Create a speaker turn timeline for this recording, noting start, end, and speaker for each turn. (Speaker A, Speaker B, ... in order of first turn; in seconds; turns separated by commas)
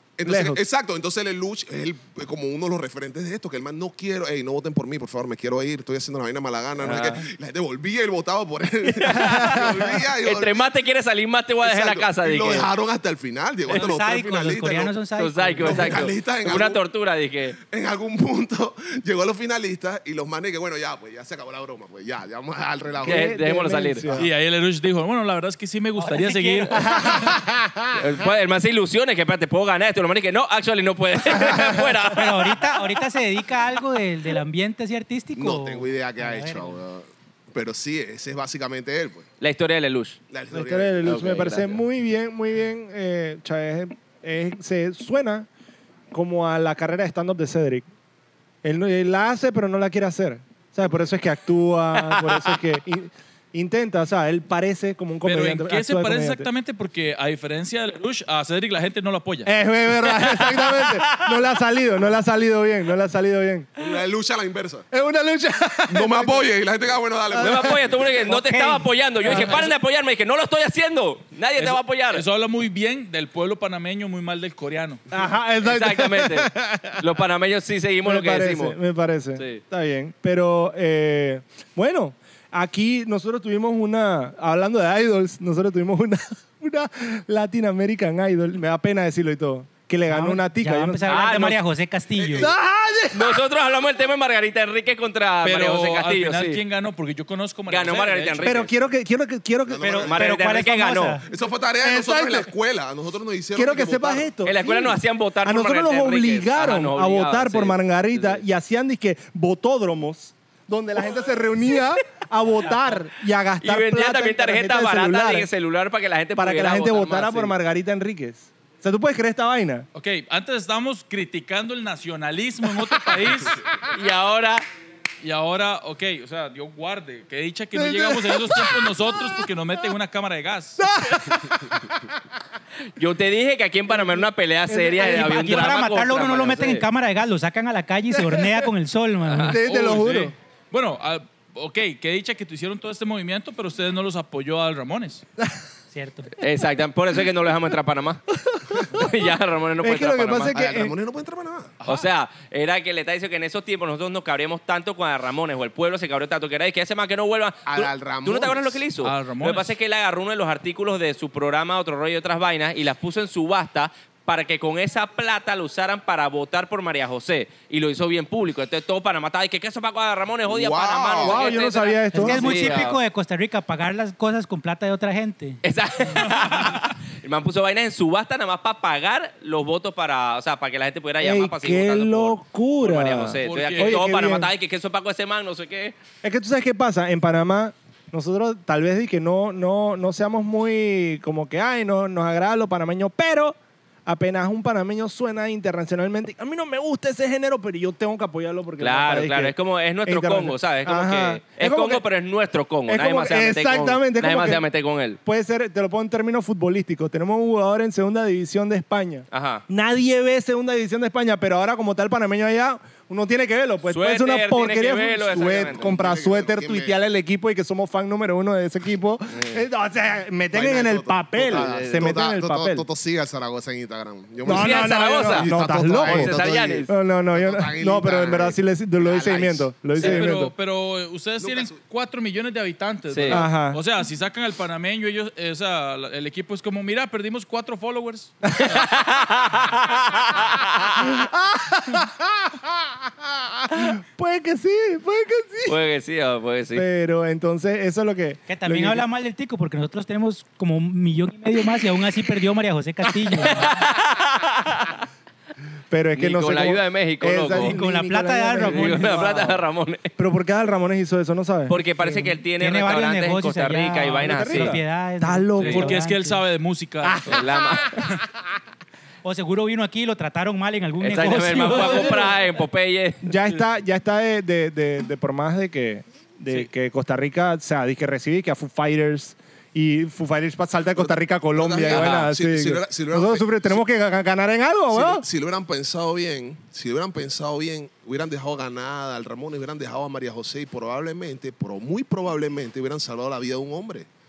Speaker A: 0.2-10.7, Speaker B: 0.2-0.6, Speaker C: 6.8-7.2, Speaker C: 8.9-12.7, Speaker B: 9.1-9.9, Speaker A: 11.6-15.0, Speaker D: 13.7-16.0, Speaker C: 15.2-17.6, Speaker A: 15.6-16.9, Speaker A: 17.5-23.4, Speaker B: 23.0-24.3, Speaker C: 23.0-24.1, Speaker A: 24.0-24.3, Speaker E: 24.1-27.2, Speaker D: 26.0-26.9, Speaker B: 26.8-27.9, Speaker C: 27.9-32.7, Speaker B: 31.4-31.9, Speaker D: 32.1-36.8, Speaker A: 35.4-39.3, Speaker C: 39.4-40.2, Speaker A: 40.3-41.5, Speaker B: 40.5-45.5, Speaker C: 41.0-41.7, Speaker B: 46.1-47.9, Speaker B: 48.6-56.5, Speaker C: 52.1-52.4, Speaker E: 55.2-59.5, Speaker B: 59.5-63.7, Speaker C: 60.0-61.4, Speaker A: 63.8-64.9, Speaker B: 64.9-66.5, Speaker A: 65.9-68.1, Speaker B: 67.3-67.9, Speaker C: 67.4-72.2, Speaker D: 68.2-68.9, Speaker B: 69.2-69.7, Speaker E: 71.6-75.0, Speaker B: 75.1-77.1, Speaker C: 75.6-78.8, Speaker B: 78.0-91.3, Speaker C: 79.3-79.6, Speaker D: 90.1-92.5, Speaker C: 91.0-91.6, Speaker A: 92.2-92.5, Speaker B: 92.3-93.4, Speaker C: 93.1-96.6, Speaker E: 95.4-98.5, Speaker C: 97.7-98.7, Speaker B: 98.4-100.2, Speaker A: 99.7-100.4, Speaker D: 99.8-101.2, Speaker C: 99.9-101.2, Speaker A: 101.2-104.4, Speaker B: 101.8-102.5, Speaker B: 103.5-115.5, Speaker C: 104.4-108.4, Speaker C: 113.6-117.5, Speaker B: 116.3-119.9, Speaker E: 119.9-123.6, Speaker C: 123.9-124.7, Speaker E: 125.2-130.9, Speaker B: 127.8-129.4, Speaker B: 130.8-132.1, Speaker C: 132.9-136.8, Speaker B: 133.9-135.7, Speaker D: 135.1-139.6, Speaker B: 138.1-138.7, Speaker C: 139.2-139.6, Speaker B: 139.5-140.3, Speaker E: 139.6-145.2, Speaker D: 145.9-146.3, Speaker C: 146.4-148.2, Speaker B: 148.5-149.1, Speaker C: 148.8-150.6, Speaker B: 149.8-150.9, Speaker A: 150.5-151.8, Speaker E: 151.8-152.1, Speaker C: 151.9-173.0, Speaker A: 157.7-158.8, Speaker E: 159.0-159.7, Speaker A: 170.4-171.7, Speaker B: 171.2-172.8, Speaker D: 172.1-175.6, Speaker C: 175.6-185.9, Speaker E: 176.2-176.7, Speaker B: 181.2-184.5, Speaker E: 183.4-184.0, Speaker B: 186.2-202.0, Speaker C: 198.8-205.2, Speaker B: 202.9-204.7, Speaker B: 205.2-222.9, Speaker C: 209.3-209.6, Speaker C: 213.9-215.9, Speaker A: 215.5-217.0, Speaker A: 220.5-230.3, Speaker C: 221.5-222.2, Speaker C: 224.4-225.5, Speaker B: 224.4-230.5, Speaker C: 226.0-226.9, Speaker E: 230.0-238.8, Speaker A: 231.4-231.8, Speaker C: 233.1-233.4, Speaker B: 233.3-233.8, Speaker B: 238.5-238.8, Speaker C: 238.6-241.1, Speaker B: 241.0-245.8, Speaker C: 245.7-246.8, Speaker B: 246.7-249.0, Speaker D: 248.5-253.8, Speaker C: 253.3-255.0, Speaker B: 255.9-259.6, Speaker C: 256.1-257.8, Speaker D: 257.5-259.5, Speaker C: 258.6-260.1, Speaker B: 260.2-262.3, Speaker C: 261.7-264.8, Speaker D: 262.6-266.4, Speaker B: 264.1-266.0, Speaker E: 265.6-268.1, Speaker B: 267.0-268.1, Speaker C: 267.2-268.1, Speaker D: 269.2-272.3, Speaker C: 271.0-273.3, Speaker B: 271.9-272.2, Speaker B: 273.2-285.2, Speaker A: 281.0-283.8, Speaker C: 281.9-282.3, Speaker A: 284.9-294.1